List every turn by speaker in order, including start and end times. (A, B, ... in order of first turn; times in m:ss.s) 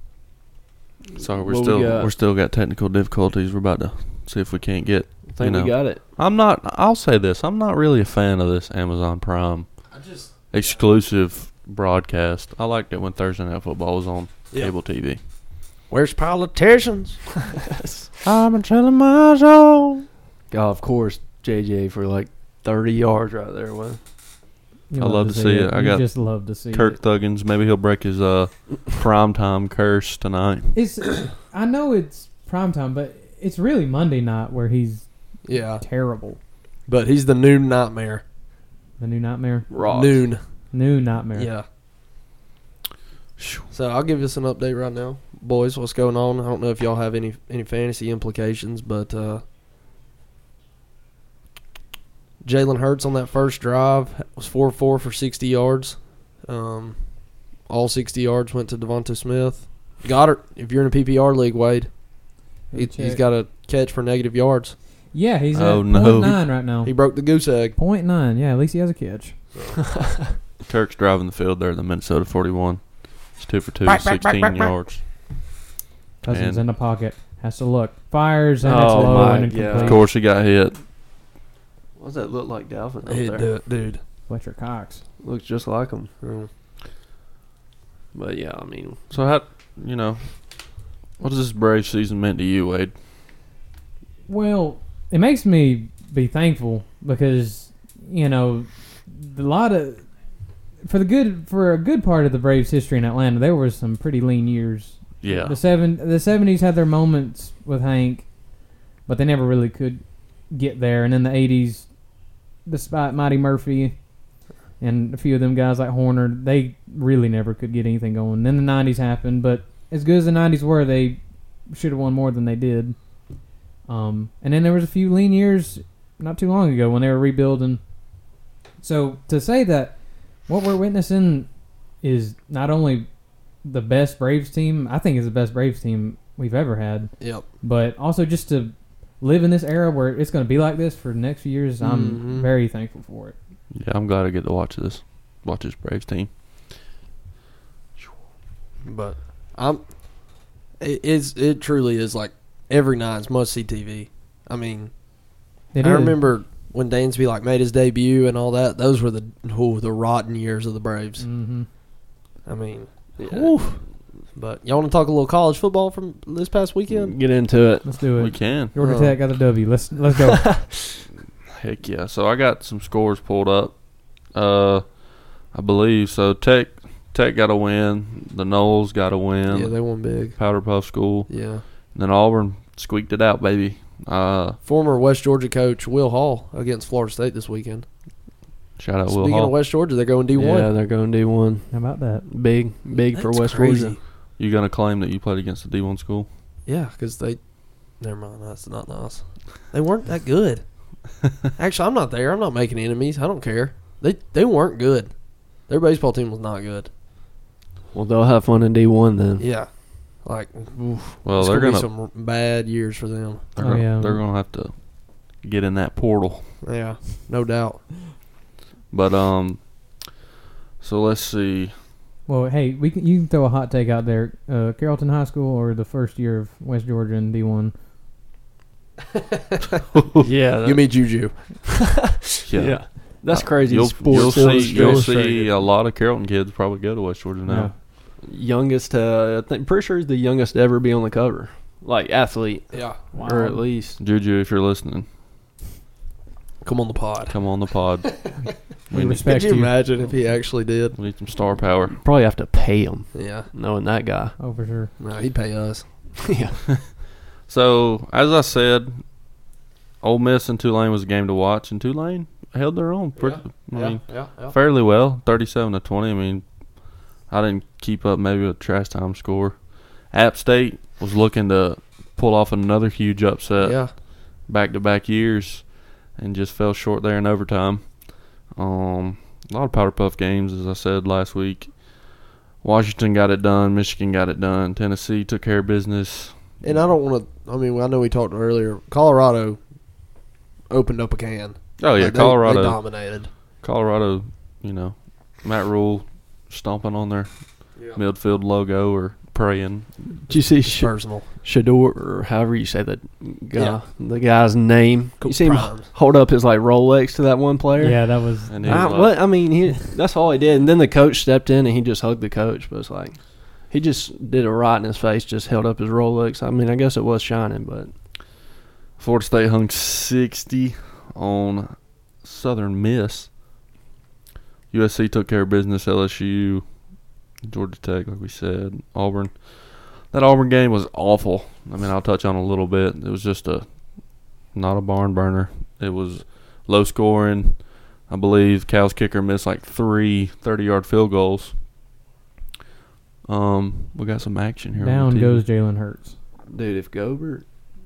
0:01.2-0:02.1 A
0:01.2-0:09.7 B
0:05.3-0:06.0 A
0:09.9-0:10.3 C
0:10.5-0:15.2 B
0:15.9-0:17.2 C
0:17.7-0:18.1 A
0:18.2-0:20.0 B
0:20.5-0:24.0 A
0:24.9-0:27.0 D
0:25.0-0:30.7 B
0:30.7-0:36.4 D
0:35.4-0:35.8 C
0:36.9-0:38.2 C
0:39.0-0:39.7 D
0:39.7-0:40.2 A
0:39.8-0:40.4 C
0:40.7-0:41.5 D
0:41.4-0:41.6 C
0:43.4-0:43.7 B
0:43.7-0:49.4 C
0:52.4-0:57.0 C
0:57.6-1:01.9 C
1:02.7-1:03.2 D
1:02.7-1:04.8 C
1:05.1-1:07.0 D
1:05.5-1:06.4 B
1:06.8-1:07.8 C
1:07.8-1:09.4 D
1:09.5-1:09.8 C
1:10.7-1:15.0 B
1:13.9-1:14.7 C
1:16.2-1:20.0 D
1:16.3-1:16.6 B
1:18.6-1:20.0 A
1:19.8-1:20.8 B
1:22.0-1:23.5 A
1:23.0-1:24.0 C
1:24.3-1:25.0 D
1:25.2-1:26.1 A
1:26.2-1:26.5 C
1:28.1-1:29.1 A
1:29.1-1:30.3 B
1:31.2-1:32.9 B
1:34.3-1:40.1 D
1:40.8-1:48.3 D
1:45.2-1:45.6 B
1:49.0-1:51.9 D
1:52.6-1:54.0 D
1:54.8-2:03.0 D
2:03.9-2:07.8 D
2:08.8-2:11.5 D
2:12.0-2:13.1 D
2:13.6-2:23.4 D
2:17.2-2:17.4 C
2:21.8-2:22.5 C
2:23.7-2:26.3 B
2:28.8-2:29.8 C
2:30.8-2:34.9 C
2:35.7-2:36.2 D
2:35.8-2:41.2 C
2:41.2-2:41.7 D
2:42.5-2:43.5 C
2:43.2-2:43.6 A
2:44.4-2:47.2 C
2:46.9-2:47.9 A
2:47.8-2:50.5 D
2:48.2-2:48.7 B
2:48.8-2:49.2 C
2:50.3-2:50.7 A
2:51.5-2:53.8 B
2:54.3-2:55.0 B
2:55.5-3:01.3 B
2:59.5-3:00.4 C
3:01.3-3:01.6 C
3:01.9-3:04.6 B
3:04.6-3:07.9 C
3:08.8-3:09.5 B
3:09.1-3:10.7 C
3:10.3-3:11.7 A
3:11.7-3:12.2 D
3:12.2-3:14.0 A
3:12.9-3:14.0 C
3:14.4-3:16.3 B
3:16.7-3:17.4 C
3:18.0-3:20.6 C
3:21.6-3:25.1 C
3:25.7-3:26.9 C
3:27.9-3:29.4 A
3:29.4-3:29.7 C
3:30.2-3:33.5 C
3:31.2-3:31.9 B
3:33.6-3:36.5 B
3:33.6-3:34.2 D
3:36.6-3:37.9 C
3:38.9-3:39.6 B
3:40.8-3:41.8 B
3:42.3-3:47.7 D
3:49.2-3:49.8 C
3:50.0-3:50.2 B
3:50.2-3:51.0 A
3:50.6-3:52.0 C
3:51.7-3:55.3 A
3:52.5-3:57.7 B
3:54.1-3:55.5 C
3:57.5-3:57.7 D
3:58.2-4:04.0 A
4:02.7-4:03.0 C
4:03.1-4:03.6 D
4:04.0-4:05.1 B
4:06.6-4:07.4 C
4:07.3-4:08.3 B
4:08.9-4:09.7 D
4:08.9-4:09.2 B
4:09.2-4:11.0 C
4:10.9-4:12.0 B
4:11.9-4:14.4 A
4:13.1-4:13.5 C
4:14.4-4:14.9 D
4:15.0-4:15.8 C
4:16.2-4:16.6 A
4:17.5-4:19.0 B
4:20.0-4:26.4 B
4:23.2-4:24.6 C
4:27.3-4:41.8 B
4:33.6-4:33.9 C
4:42.6-4:46.5 B
4:46.6-4:49.6 C
4:50.7-4:53.3 C
4:51.8-4:53.0 B
4:53.6-5:00.3 B
5:00.3-5:08.0 A
5:00.6-5:01.3 C
5:03.6-5:03.8 C
5:05.2-5:05.9 C
5:07.8-5:08.9 D
5:08.5-5:09.3 B
5:08.6-5:17.9 A
5:19.0-5:23.3 B
5:24.7-5:26.6 B
5:27.5-5:33.8 B
5:34.5-5:41.6 B
5:43.3-5:45.4 B
5:44.8-5:46.2 D
5:46.5-5:47.4 A